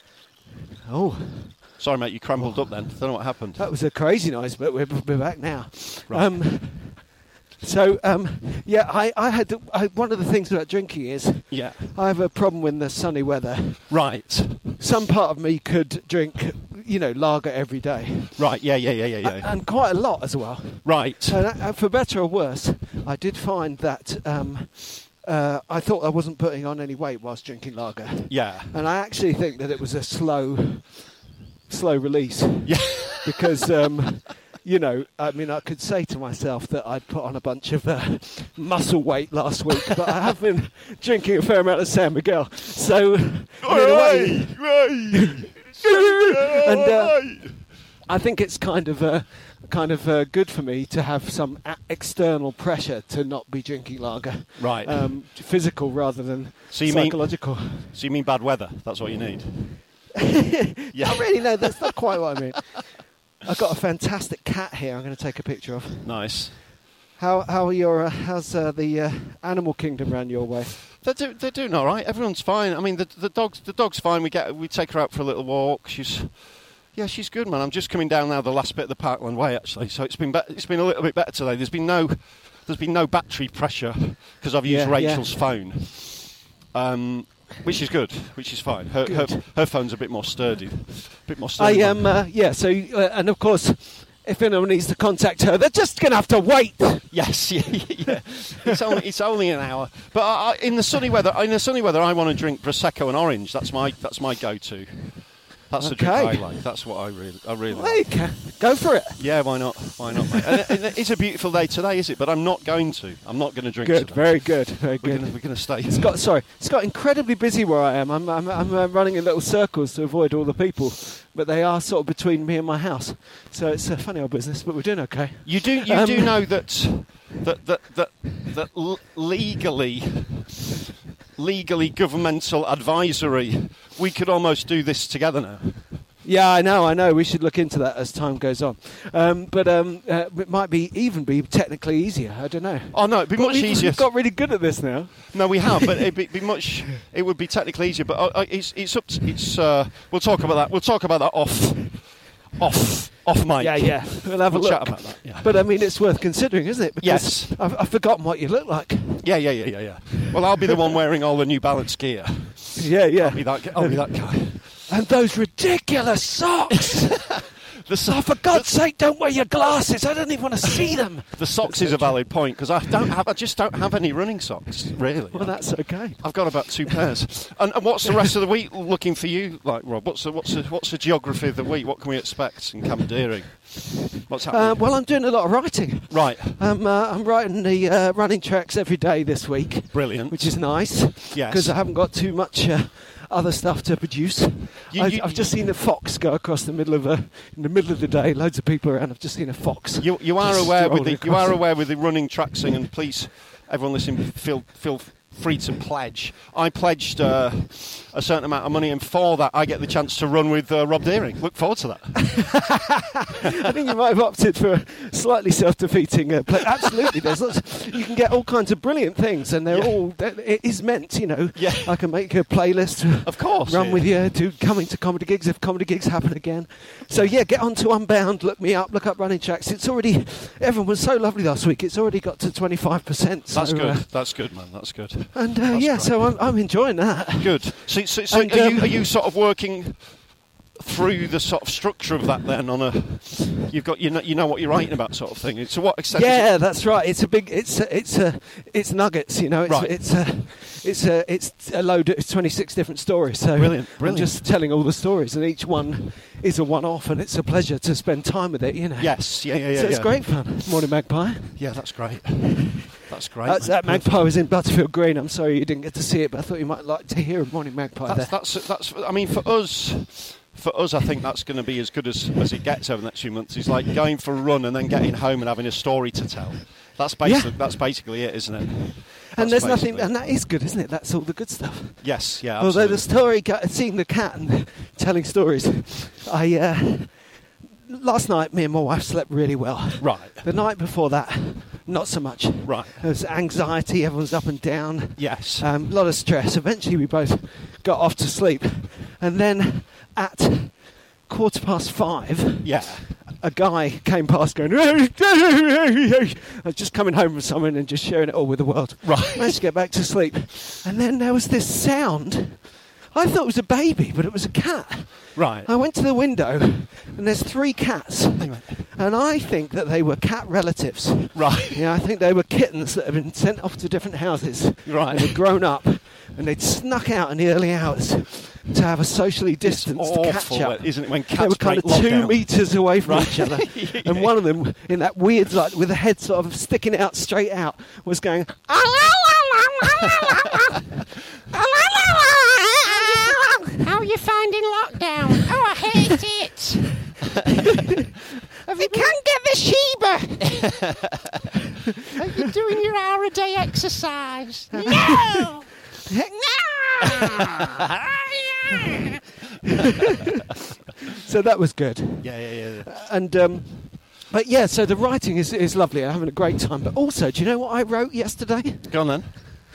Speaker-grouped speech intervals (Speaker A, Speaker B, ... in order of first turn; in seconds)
Speaker A: 0.9-1.8, 2.4-7.1, 7.6-14.0, 14.8-18.4, 19.2-31.1, 31.7-57.9, 60.2-66.4, 67.2-70.8, 84.6-85.3, 89.0-89.4, 91.6-97.2, 105.8-106.5, 107.7-109.5, 110.1-110.7, 113.8-126.5, 136.2-145.9, 153.6-159.2, 162.8-167.3, 168.1-172.3, 175.3-177.0, 184.5-201.6, 212.2-234.1, 235.3-239.1, 246.1-261.6, 263.4-268.3, 277.2-277.8, 279.3-287.2, 287.9-302.7, 303.3-338.7, 348.7-349.1, 354.7-355.4, 359.6-360.2, 361.1-369.1
Speaker B: 1.8-3.6, 6.1-6.4, 11.5-11.9, 13.9-14.6, 18.4-19.5, 20.8-21.4, 28.3-28.7, 32.6-33.5, 43.6-47.5, 54.6-55.1, 56.7-59.8, 60.9-61.9, 66.0-66.6, 71.0-92.2, 97.1-108.2, 109.2-116.1, 125.4-130.4, 131.4-135.8, 142.9-144.3, 145.3-155.8, 157.0-157.6, 159.2-164.7, 166.8-168.7, 170.7-185.1, 186.1-186.6, 189.9-191.7, 194.9-195.6, 200.0-212.6, 219.7-219.9, 221.6-222.0, 223.2-224.1, 227.1-227.4, 233.5-236.7, 237.4-240.1, 240.8-246.5, 249.7-249.9, 253.6-254.4, 259.0-260.5, 261.6-264.3, 268.1-280.3, 282.0-283.1, 290.0-290.4, 292.6-293.1, 295.2-295.7, 302.6-303.1, 309.0-309.6, 315.3-315.7, 318.4-318.8, 321.3-321.8, 324.9-325.4, 329.6-334.3, 352.2-352.5, 362.2-363.0, 368.9-369.4
Speaker C: 338.7-340.7, 341.5-347.0, 348.7-350.8, 352.4-355.7, 356.3-359.1